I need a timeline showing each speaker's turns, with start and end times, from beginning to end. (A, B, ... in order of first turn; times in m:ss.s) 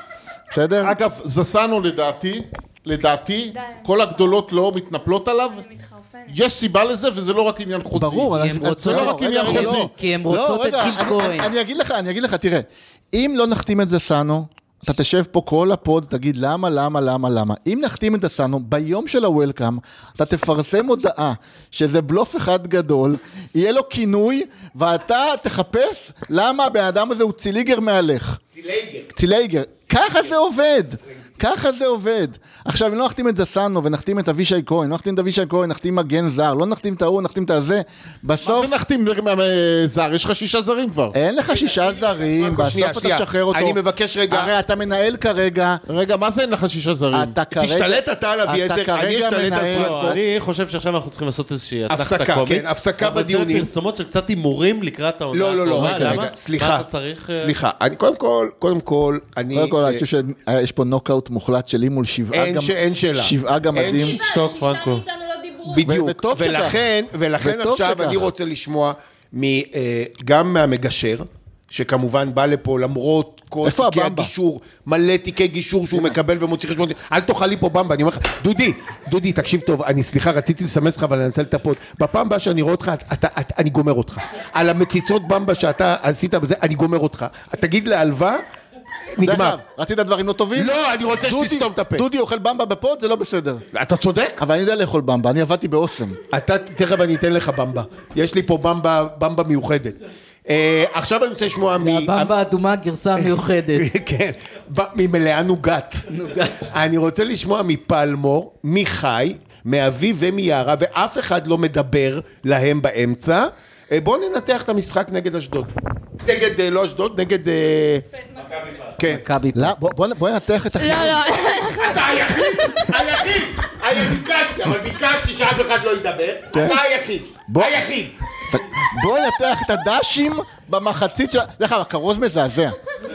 0:00.5-0:01.0 A
0:00.8-0:05.6 B
0:03.5-0:04.3 C
0:05.5-0:06.4 C
0:06.3-0:09.9 B
0:07.9-0:28.4 A
0:08.3-0:11.5 D
0:28.5-0:29.1 E
0:29.1-0:38.8 A
0:38.4-0:41.1 B
0:41.1-0:45.8 A
0:42.4-0:44.5 E
0:45.9-0:47.3 B
0:47.1-0:50.2 A
0:47.5-0:50.2 E
0:49.6-0:57.5 F
0:51.9-0:53.7 E
0:55.3-1:00.0 E
0:55.7-0:56.3 A
0:59.5-1:04.2 A
1:02.3-1:04.1 E
1:03.8-1:05.9 C
1:04.2-1:05.0 F
1:05.7-1:28.4 E
1:05.8-1:06.8 A
1:07.4-1:08.3 A
1:13.6-1:14.3 A
1:29.1-1:29.6 E
1:29.2-1:33.6 A
1:30.5-1:32.0 E
1:33.7-1:34.4 E
1:34.4-1:36.2 A
1:36.3-1:42.3 E
1:41.8-1:43.9 D
1:43.2-1:55.7 E
1:46.1-1:46.6 D
1:56.2-1:58.0 E
1:58.4-1:58.8 F
1:59.0-1:59.2 E
1:59.0-1:59.7 D
1:59.5-2:01.4 A
2:00.8-2:03.0 C
2:01.6-2:08.1 E
2:06.5-2:06.8 A
2:07.5-2:07.8 A
2:08.5-2:12.8 A